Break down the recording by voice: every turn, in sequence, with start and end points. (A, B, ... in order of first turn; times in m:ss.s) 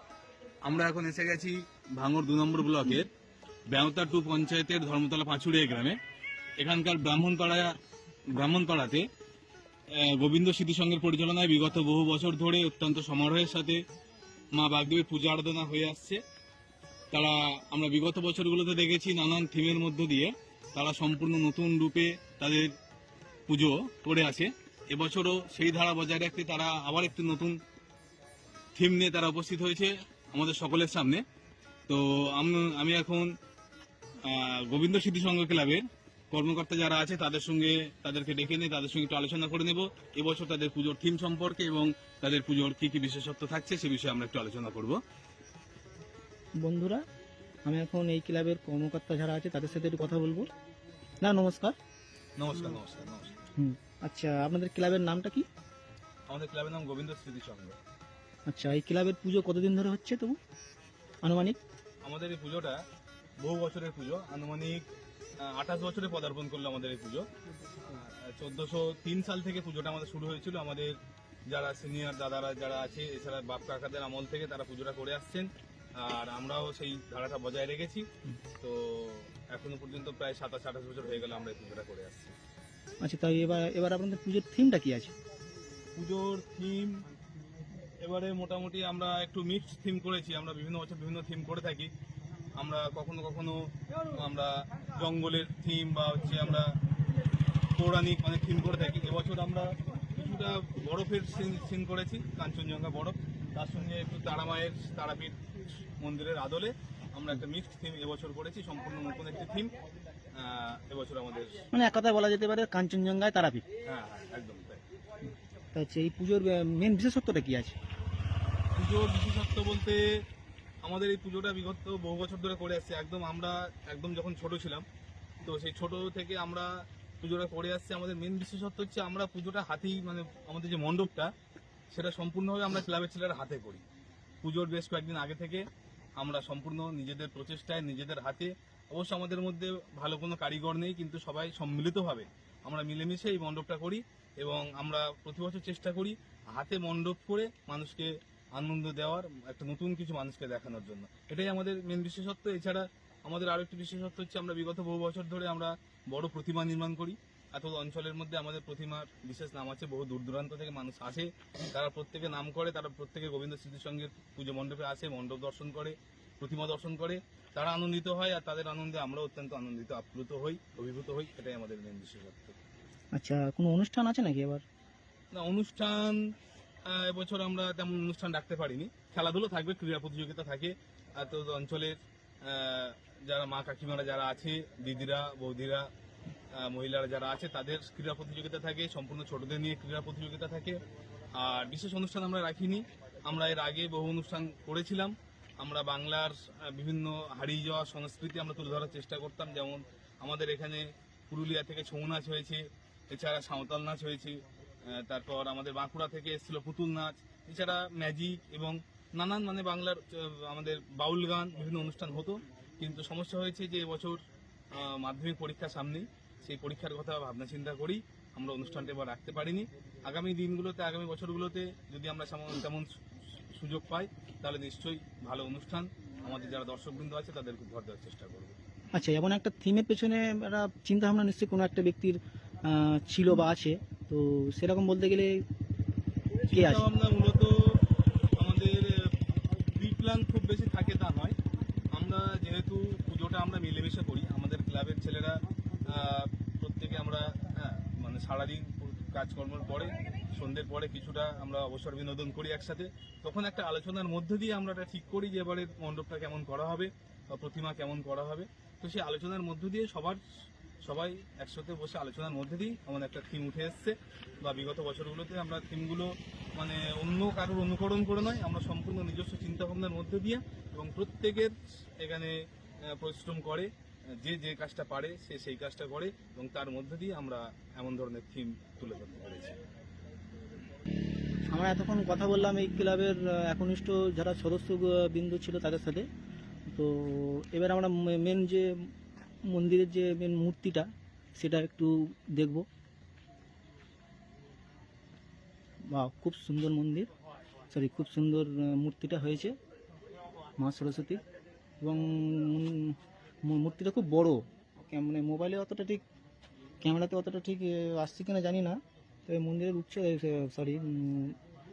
0:00.6-0:03.1 A
0:03.7-0:06.0 A
0:06.6-0:07.7 A
0:08.3-0:09.1 A
0:09.9-0:13.8 A
0:14.5-0:16.2 A
0:17.1-0:22.8 A
0:23.5-0:27.6 A
0:28.7-0:31.2 A
0:31.9-0:33.4 A
0:34.2-0:45.0 A
0:46.6-0:47.0 B
0:47.6-0:50.5 B
0:51.2-0:51.7 B
0:52.4-0:53.4 A
0:53.6-0:55.4 B
0:56.3-0:57.8 A
0:58.5-1:00.4 B
1:01.2-1:01.6 B
1:02.0-1:02.8 A
1:03.4-1:04.9 A
1:05.4-1:07.3 A
1:07.9-1:18.1 A
1:18.6-1:22.3 A
1:23.0-1:25.1 B
1:25.9-1:27.0 A
1:28.0-1:31.9 A
1:32.6-1:36.7 A
1:37.7-1:49.7 A
1:50.3-1:51.7 A
1:51.7-1:53.6 B
1:53.8-1:54.8 A
1:55.7-1:57.8 B
1:58.7-2:00.2 A
2:00.8-2:04.8 A
2:05.4-2:11.3 A
2:11.9-2:13.8 A
2:14.4-2:15.6 A
2:16.2-2:52.6 A
2:53.1-2:54.6 B
2:55.3-2:56.3 A
2:56.8-3:05.9 A
3:06.5-3:10.8 A
3:11.3-3:48.6 A
3:48.9-3:55.4 B
3:56.4-4:01.4 A
3:56.5-3:56.9 B
4:01.9-4:39.6 A
4:41.5-4:46.1 B
4:46.7-4:48.9 B
4:49.4-4:52.6 B
4:55.8-4:57.1 B
4:57.7-4:59.6 B
5:00.6-5:01.2 B
5:01.8-5:06.0 B
5:06.8-5:11.4 B